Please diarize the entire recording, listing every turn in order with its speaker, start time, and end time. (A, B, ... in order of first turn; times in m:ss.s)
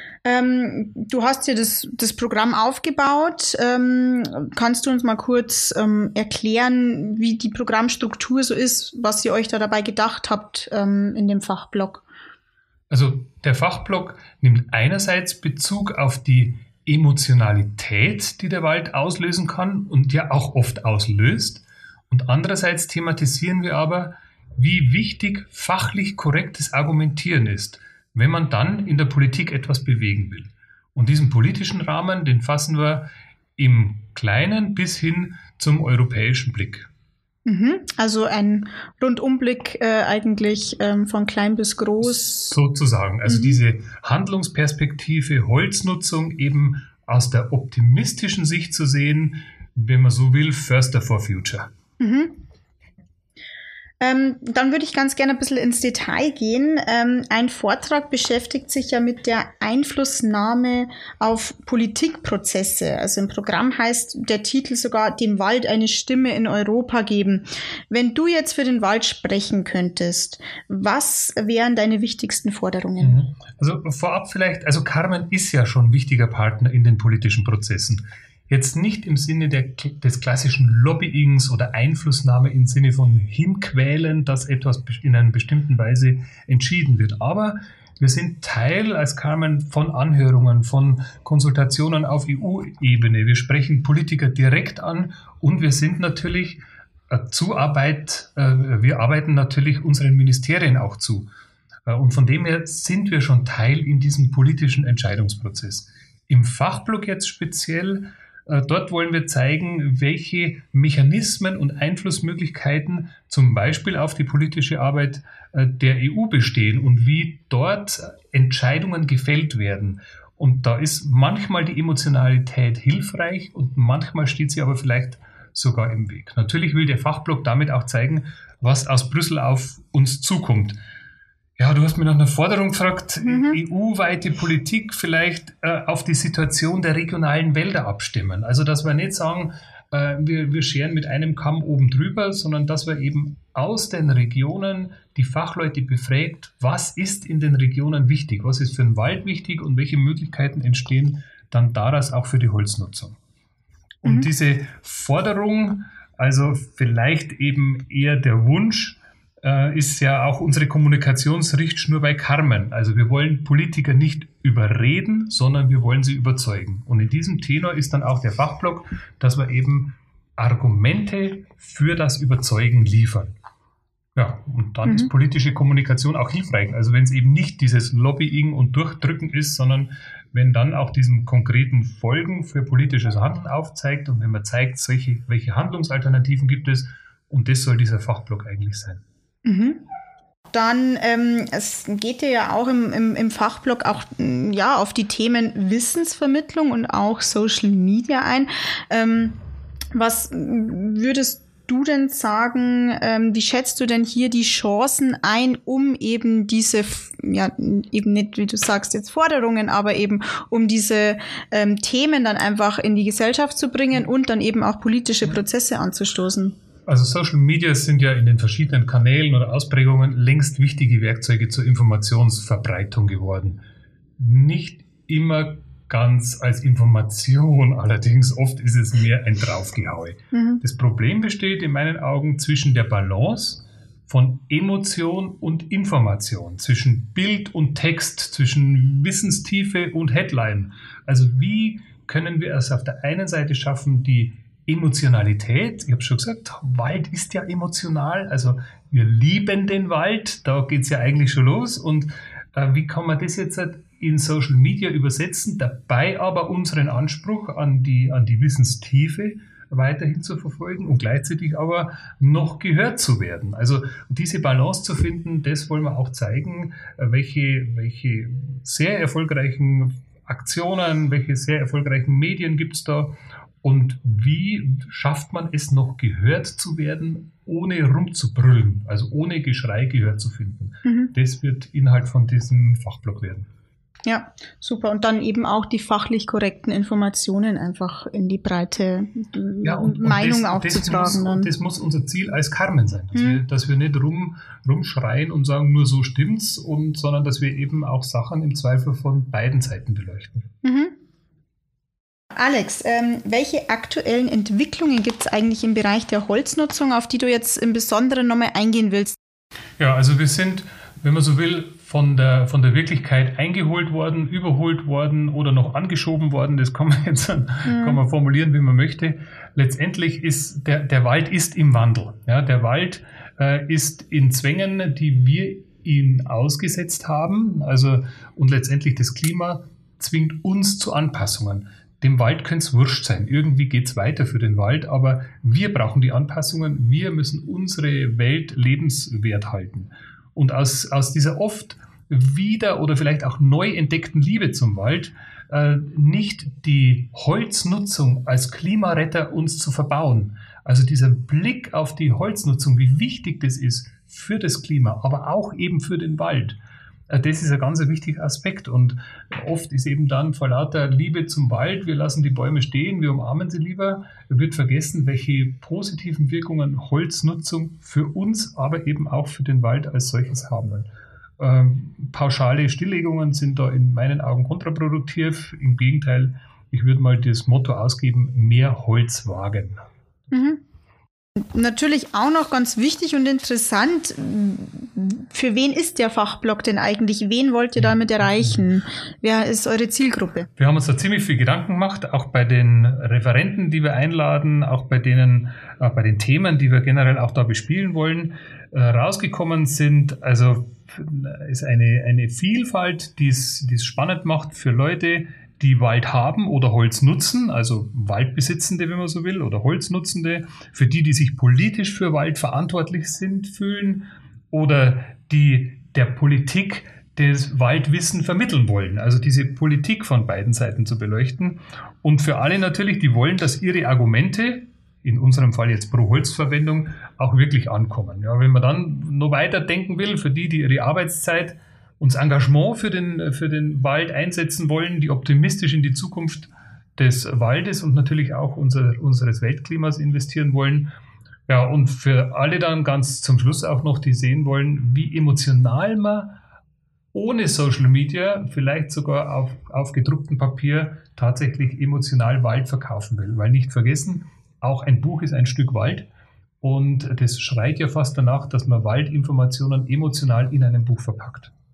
0:00.2-0:12.0 A
0:12.9-0:33.0 B
0:33.6-0:36.9 B
0:37.4-0:42.6 A
0:42.2-0:51.7 B
0:43.2-0:43.6 A
0:52.0-0:52.4 A
0:54.0-1:13.2 A
1:13.0-1:41.3 B
1:41.9-2:10.8 B
2:11.6-2:33.2 B
2:13.2-2:13.6 A
2:34.0-2:53.3 B
2:54.2-3:09.0 B
3:09.4-3:09.8 A
3:10.5-3:19.4 A
3:19.9-3:36.6 A
3:36.9-3:43.6 B
3:44.2-4:43.5 B
3:50.3-3:50.6 A
4:40.8-4:41.1 A
4:44.0-4:51.5 A
4:49.6-5:00.5 B
4:53.1-4:53.4 A
5:00.6-5:01.0 A
5:02.3-5:09.2 A
5:09.8-5:56.6 B
5:17.6-5:18.0 A
5:57.1-6:10.9 B
6:11.4-6:19.8 B
6:20.3-6:20.6 A
6:21.4-6:30.5 A
6:30.6-7:20.9 B
7:21.5-7:26.4 B
7:27.1-7:36.0 B
7:36.6-7:41.5 B